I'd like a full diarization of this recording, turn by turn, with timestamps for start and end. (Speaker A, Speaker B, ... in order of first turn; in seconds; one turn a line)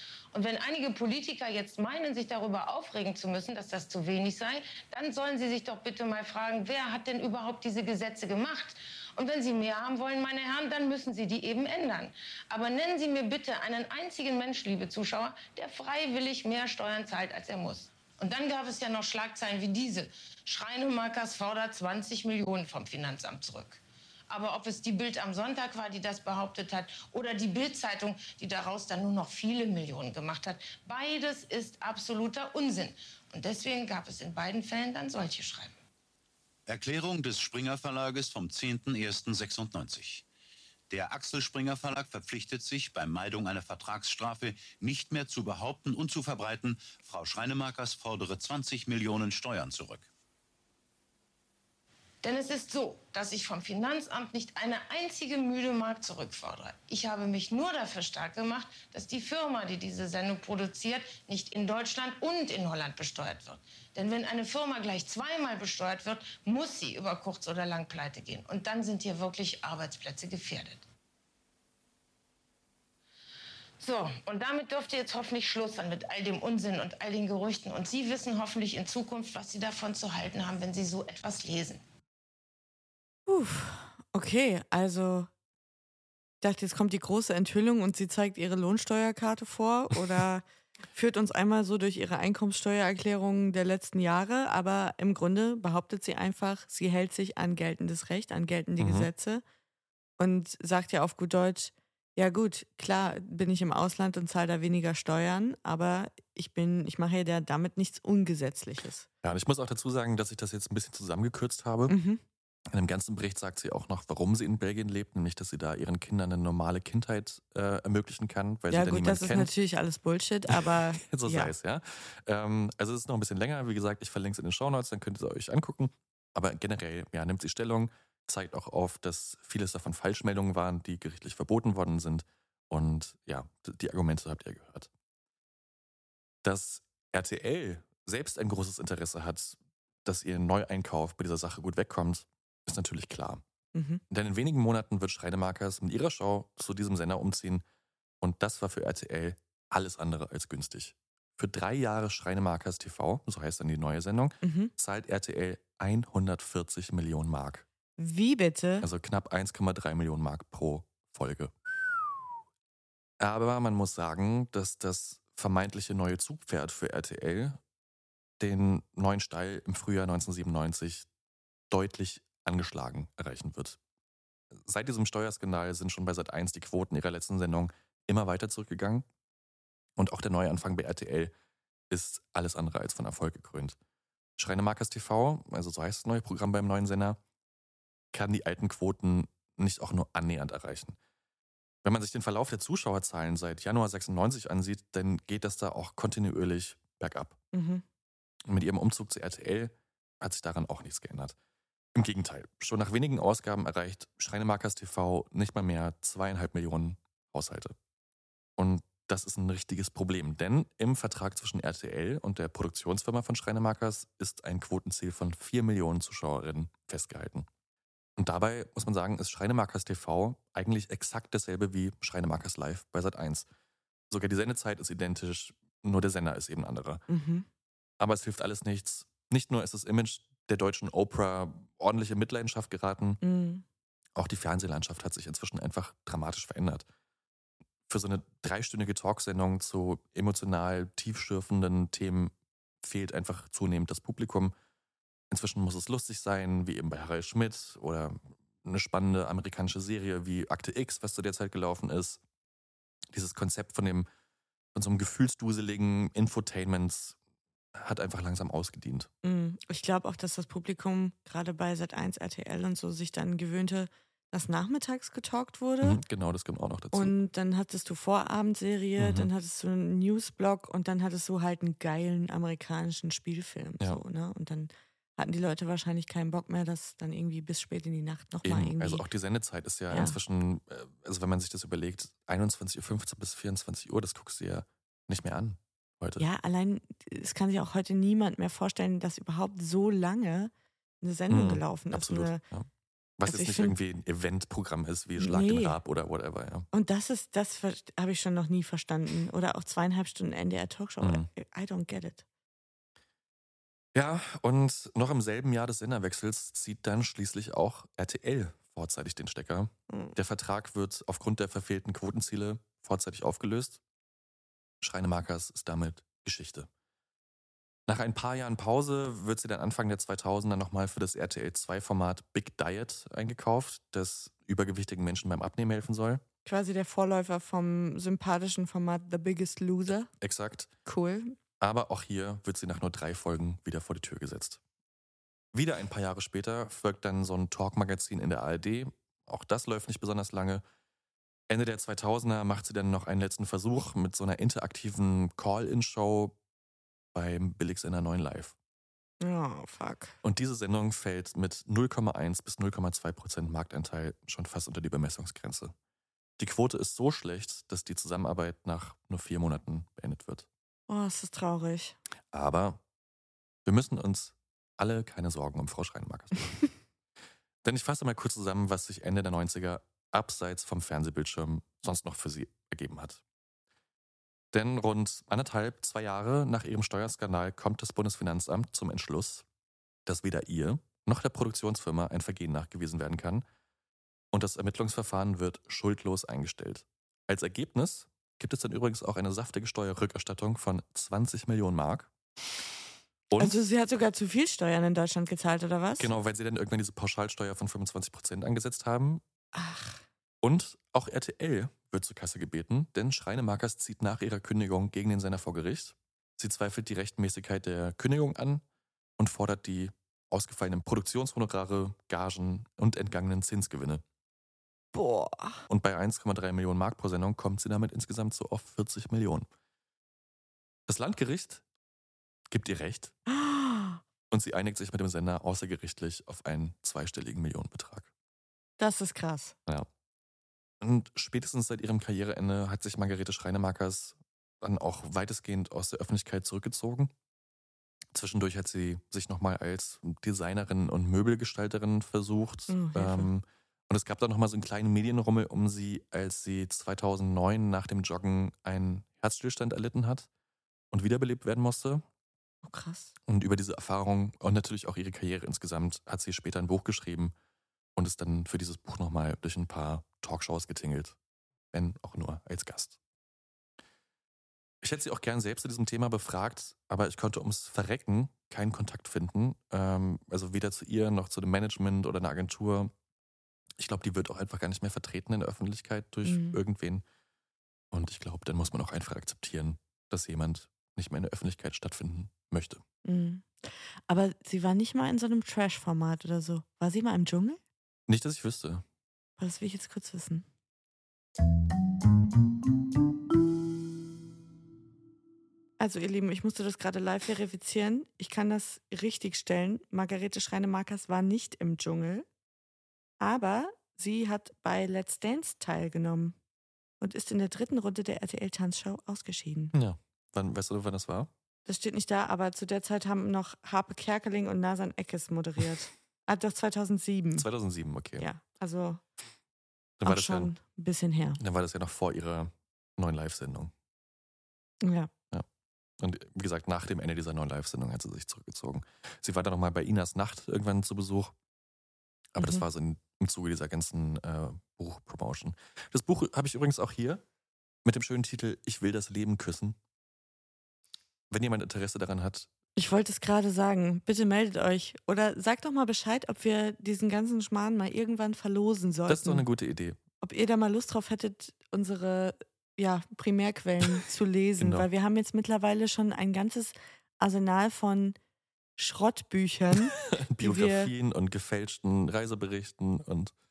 Speaker A: 0.3-35.7
Speaker B: 36.7-40.2
Speaker B: 40.9-50.1
Speaker A: 52.2-70.8
Speaker A: 73.8-81.8
Speaker C: 83.3-85.3
Speaker C: 86.4-99.4
Speaker D: 98.8-99.1
Speaker C: 100.2-109.1
Speaker D: 109.2-111.9
Speaker C: 111.9-112.2
Speaker D: 112.7-119.5
Speaker C: 118.7-121.5
Speaker D: 120.5-134.9
Speaker D: 136.4-143.4
Speaker C: 143.7-144.0
Speaker D: 144.1-147.6
Speaker D: 148.2-157.6
Speaker C: 154.4-154.7
Speaker C: 158.0-158.9
Speaker D: 158.8-161.5
Speaker D: 163.2-167.6
Speaker D: 168.4-171.1
Speaker D: 171.7-173.8
Speaker D: 174.6-179.1
Speaker D: 180.0-181.3
Speaker D: 181.9-183.8
Speaker D: 184.4-187.2
Speaker D: 188.1-190.9
Speaker D: 191.8-197.4
Speaker C: 197.5-197.8
Speaker D: 198.5-201.3
Speaker D: 201.9-207.7
Speaker D: 208.6-217.4
Speaker D: 218.2-223.4
Speaker D: 224.1-227.0
Speaker C: 227.1-227.5
Speaker D: 228.0-233.2
Speaker C: 233.2-233.6
Speaker D: 234.2-236.8
Speaker D: 237.9-244.5
Speaker D: 245.3-252.2
Speaker D: 253.1-254.1
Speaker D: 254.7-257.2
Speaker D: 257.8-259.1
Speaker C: 259.2-266.0
Speaker D: 265.8-267.1
Speaker C: 266.9-279.0
Speaker D: 269.0-269.3
Speaker D: 278.4-286.2
Speaker C: 279.9-280.2
Speaker C: 286.2-292.4
Speaker D: 291.3-292.7
Speaker D: 293.2-296.7
Speaker C: 293.3-293.8
Speaker C: 295.2-295.8
Speaker C: 296.7-302.2
Speaker D: 301.0-301.3
Speaker D: 303.9-313.8
Speaker D: 314.8-316.7
Speaker D: 317.9-326.2
Speaker C: 326.4-330.1
Speaker D: 330.2-330.7
Speaker C: 330.9-331.4
Speaker D: 331.6-334.6
Speaker D: 335.5-340.6
Speaker D: 341.5-346.4
Speaker D: 347.1-348.6
Speaker C: 349.2-350.1
Speaker D: 350.2-355.7
Speaker D: 356.4-360.5
Speaker C: 360.9-362.0
Speaker D: 362.3-362.8
Speaker D: 363.6-366.7
Speaker D: 367.6-373.2
Speaker D: 374.5-379.4
Speaker D: 380.1-383.4
Speaker D: 384.3-392.1
Speaker D: 393.3-393.6
Speaker C: 393.4-396.1
Speaker D: 396.0-399.2
Speaker C: 399.5-400.0
Speaker D: 400.4-408.6
Speaker D: 409.2-414.0
Speaker C: 414.9-415.6
Speaker D: 415.7-419.5
Speaker D: 420.9-421.6
Speaker D: 422.5-423.2
Speaker C: 423.3-424.0
Speaker D: 424.3-428.1
Speaker C: 428.8-429.5
Speaker D: 430.8-437.1
Speaker D: 438.1-450.3
Speaker C: 442.7-443.3
Speaker D: 450.9-452.0
Speaker C: 452.6-453.1
Speaker D: 453.3-457.3
Speaker D: 457.9-461.2
Speaker D: 461.7-463.0
Speaker D: 464.8-472.9
Speaker D: 473.8-477.0
Speaker C: 476.2-476.6
Speaker D: 477.9-482.8
Speaker C: 483.0-487.6
Speaker D: 488.1-488.8
Speaker C: 489.4-490.4
Speaker C: 495.8-502.2
Speaker C: 503.2-506.4
Speaker C: 507.0-509.7
Speaker D: 509.7-511.3
Speaker C: 511.6-517.5
Speaker D: 517.4-518.3
Speaker C: 518.2-519.0
Speaker D: 520.0-520.5
Speaker C: 520.0-521.4
Speaker D: 521.4-523.7
Speaker C: 524.8-525.1
Speaker D: 526.0-531.3
Speaker D: 532.3-537.2
Speaker C: 532.4-532.6
Speaker D: 537.8-539.8
Speaker D: 541.3-542.5
Speaker C: 542.8-549.4
Speaker D: 549.1-550.0
Speaker C: 550.2-558.1
Speaker D: 554.6-554.9
Speaker C: 558.8-560.9
Speaker D: 560.0-563.3